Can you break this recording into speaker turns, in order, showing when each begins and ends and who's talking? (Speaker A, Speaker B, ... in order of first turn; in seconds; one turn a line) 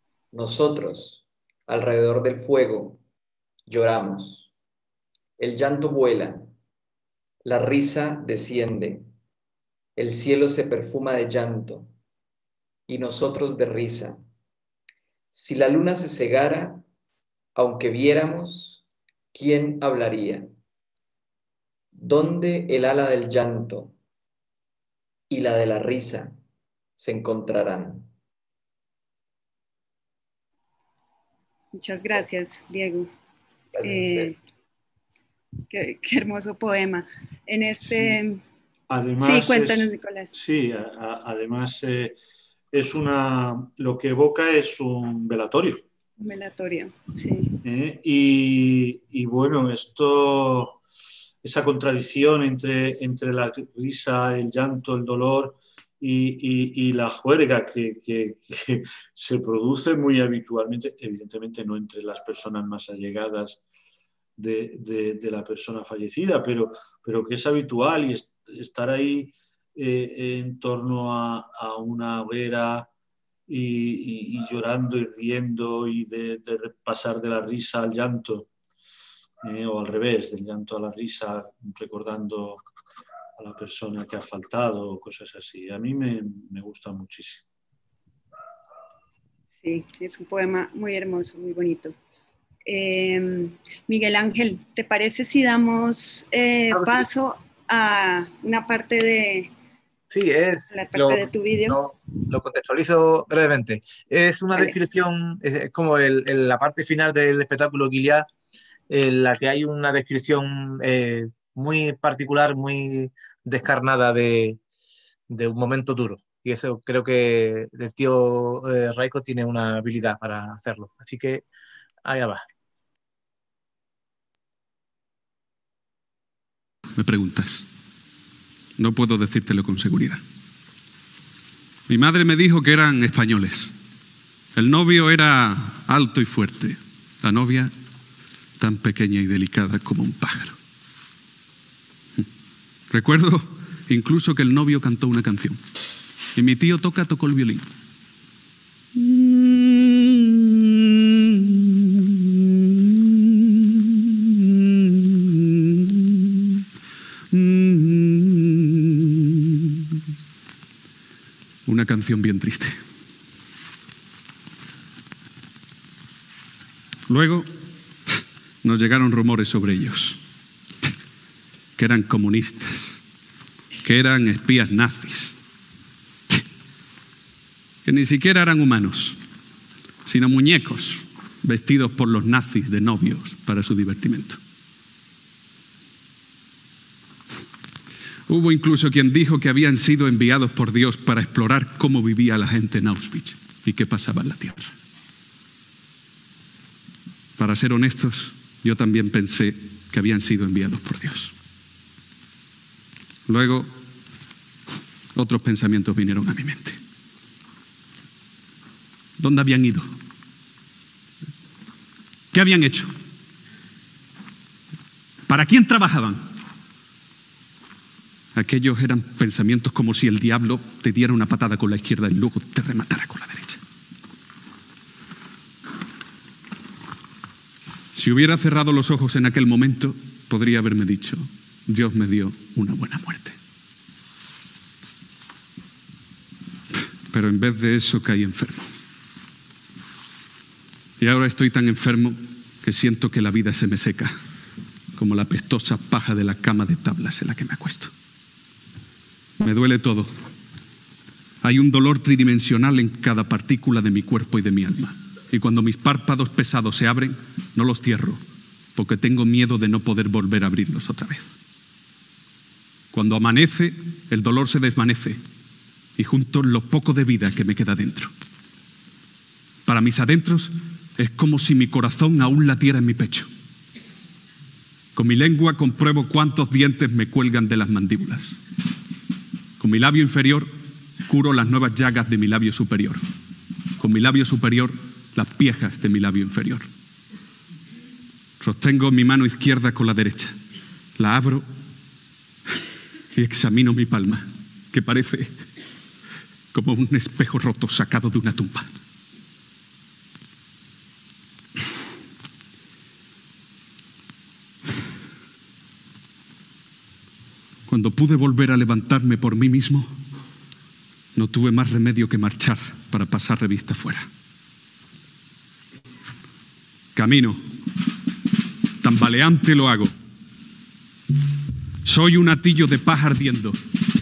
Speaker A: 0.3-3.0
Speaker A: 3.7-4.5
Speaker A: 5.4-6.5
Speaker A: 7.5-9.1
Speaker A: 10.0-11.9
Speaker A: 12.9-14.2
Speaker A: 15.3-16.9
Speaker A: 17.6-18.8
Speaker A: 19.3-20.5
Speaker A: 21.9-24.0
Speaker A: 25.3-26.4
Speaker A: 27.0-28.1
Speaker B: 31.7-33.1
Speaker A: 33.7-34.4
Speaker B: 33.8-34.4
Speaker B: 35.7-38.4
Speaker C: 38.9-42.2
Speaker B: 39.2-40.4
Speaker C: 42.7-45.9
Speaker B: 46.2-47.6
Speaker C: 47.6-50.8
Speaker C: 51.4-63.6
Speaker C: 64.4-72.9
Speaker C: 73.5-78.5
Speaker C: 79.4-82.6
Speaker C: 83.4-87.5
Speaker B: 89.6-92.0
Speaker B: 92.7-99.5
Speaker D: 96.7-97.1
Speaker D: 100.1-108.3
Speaker B: 100.7-101.8
Speaker D: 108.9-114.6
Speaker D: 115.3-121.5
Speaker D: 122.0-122.4
Speaker E: 127.0-127.7
Speaker E: 128.8-130.2
Speaker E: 131.9-133.7
Speaker E: 134.6-137.7
Speaker E: 138.6-140.6
Speaker E: 142.9-145.6
Speaker E: 146.3-147.7
Speaker E: 148.9-156.6
Speaker E: 157.3-159.9
Speaker E: 161.7-162.8
Speaker E: 167.1-167.5
Speaker E: 168.6-170.2
Speaker E: 171.8-173.0
Speaker E: 173.8-175.4
Speaker E: 177.8-179.2
Speaker E: 180.1-184.4
Speaker E: 188.3-194.7
Speaker E: 197.4-201.3
Speaker E: 203.3-203.7
Speaker E: 205.2-206.8
Speaker E: 209.2-209.9
Speaker E: 212.3-212.9
Speaker E: 215.3-216.3
Speaker E: 218.3-223.6
Speaker E: 227.9-233.4
Speaker E: 237.1-238.7
Speaker E: 241.0-244.2
Speaker E: 245.0-247.9
Speaker E: 249.4-250.1
Speaker E: 251.4-258.2
Speaker E: 258.8-261.3
Speaker E: 262.9-265.2
Speaker E: 266.0-268.1
Speaker E: 269.7-273.3
Speaker E: 274.9-278.4
Speaker E: 279.6-283.0
Speaker E: 283.8-286.7
Speaker E: 288.4-290.4
Speaker E: 291.0-291.5
Speaker E: 293.1-295.4
Speaker E: 296.5-298.7
Speaker E: 307.7-309.9
Speaker E: 311.1-314.1
Speaker E: 317.0-317.4
Speaker E: 318.8-319.9
Speaker E: 321.9-323.6